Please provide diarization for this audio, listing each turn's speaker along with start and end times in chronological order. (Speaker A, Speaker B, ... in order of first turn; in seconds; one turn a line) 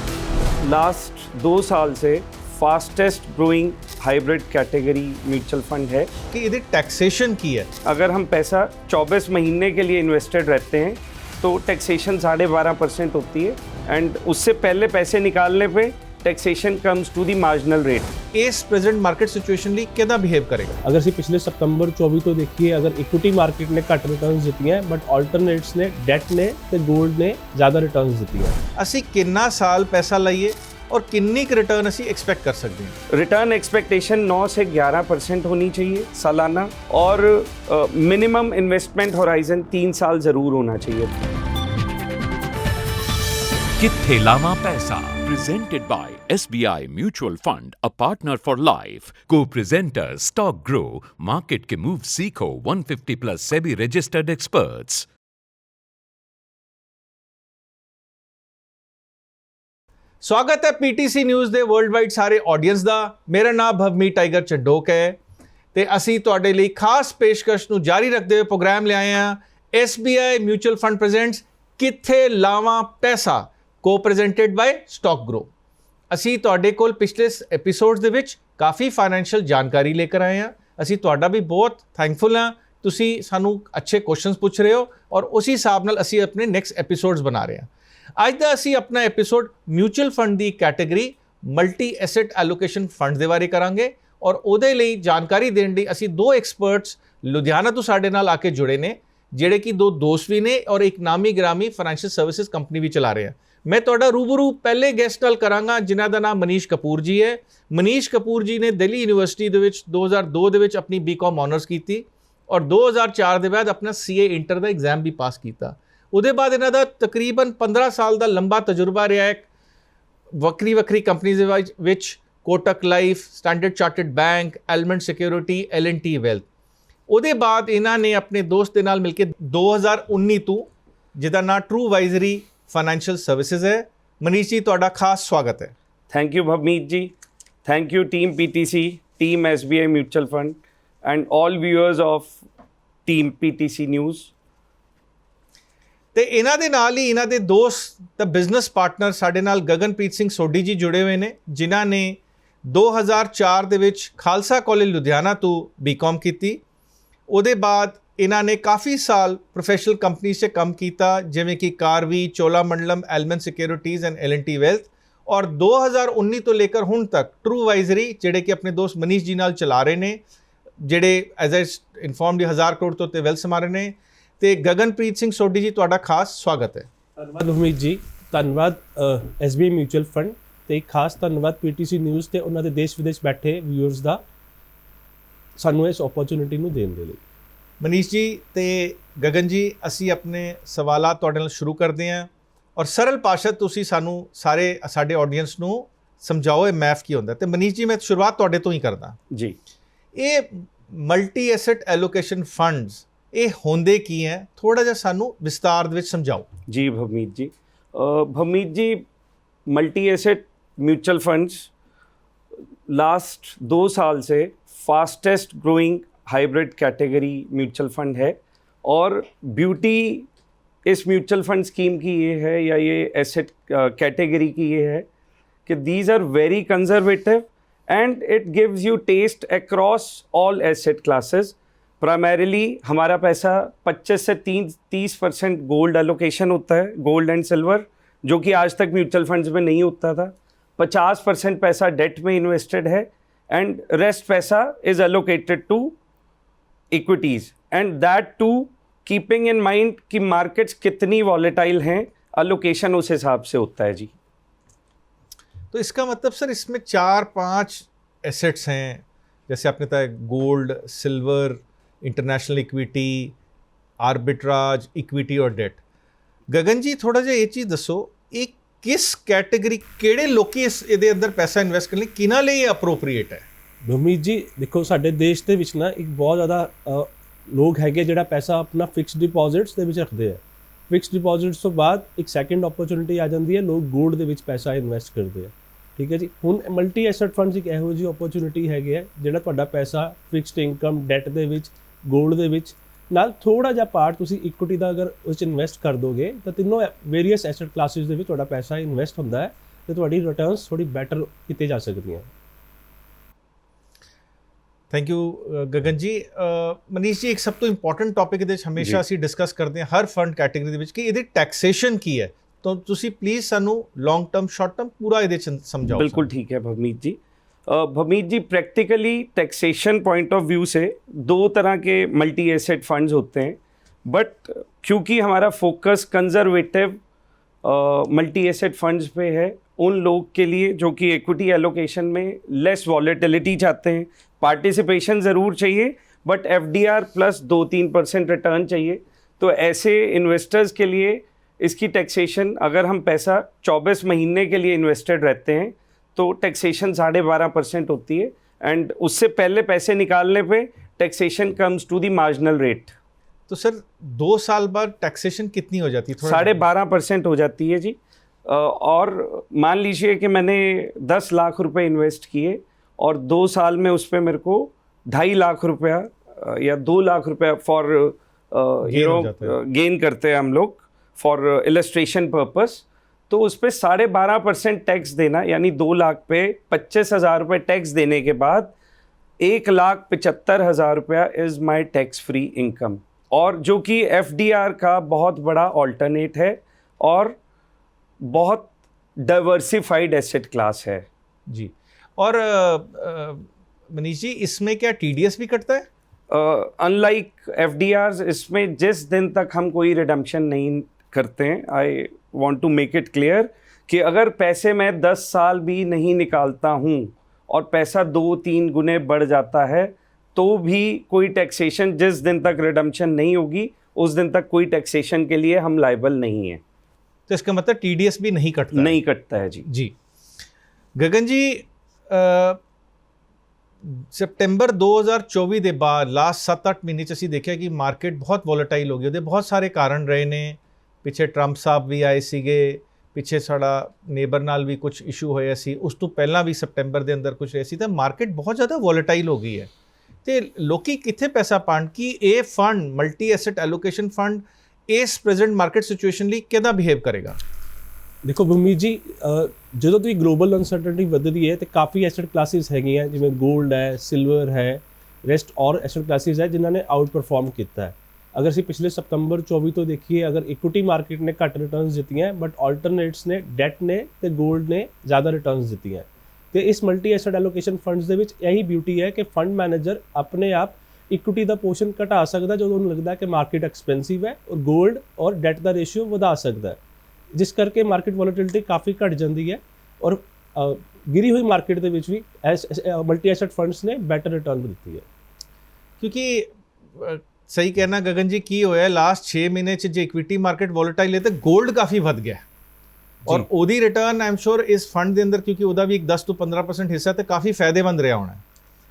Speaker A: 0.6-6.1
Speaker B: 6.3-7.7
Speaker A: 7.8-18.1
Speaker B: 18.3-20.8
Speaker C: 20.8-28.6
Speaker B: 28.8-33.0
Speaker A: 33.1-41.1
Speaker D: 43.8-55.1
Speaker B: 60.2-65.2
Speaker B: 65.7-75.5
Speaker B: 76.1-119.5
Speaker B: 120.3-126.5
Speaker B: 127.1-135.7
Speaker A: 136.1-137.1
Speaker A: 137.7-142.4
Speaker A: 143.1-144.3
Speaker B: 146.2-156.6
Speaker B: 157.3-170.2
Speaker B: 170.8-176.9
Speaker C: 177.2-184.2
Speaker C: 185.6-187.2
Speaker B: 187.8-199.2
Speaker A: 199.3-199.6
Speaker B: 200.2-206.5
Speaker A: 206.7-209.1
Speaker A: 209.7-211.7
Speaker A: 212.9-220.3
Speaker A: 220.9-225.1
Speaker A: 225.7-245.9
Speaker A: 246.9-254.1
Speaker B: 255.7-263.4
Speaker B: 264.0-265.8
Speaker B: 266.5-273.5
Speaker C: 273.8-302.3
Speaker B: 304.9-316.3
Speaker A: 316.0-327.0
Speaker A: 327.6-352.9
Speaker B: 353.5-356.6
Speaker A: 356.2-378.7
Speaker B: 368.9-369.5
Speaker A: 379.4-387.4
Speaker A: 388.2-388.7
Speaker A: 389.2-391.1
Speaker B: 391.5-395.9
Speaker A: 396.3-416.6
Speaker B: 417.3-419.0
Speaker A: 418.7-419.7
Speaker B: 419.7-419.9
Speaker B: 421.0-422.6
Speaker B: 423.9-439.7
Speaker B: 440.2-447.4
Speaker C: 448.2-476.8
Speaker C: 477.3-485.0
Speaker B: 486.0-492.4
Speaker B: 493.3-498.4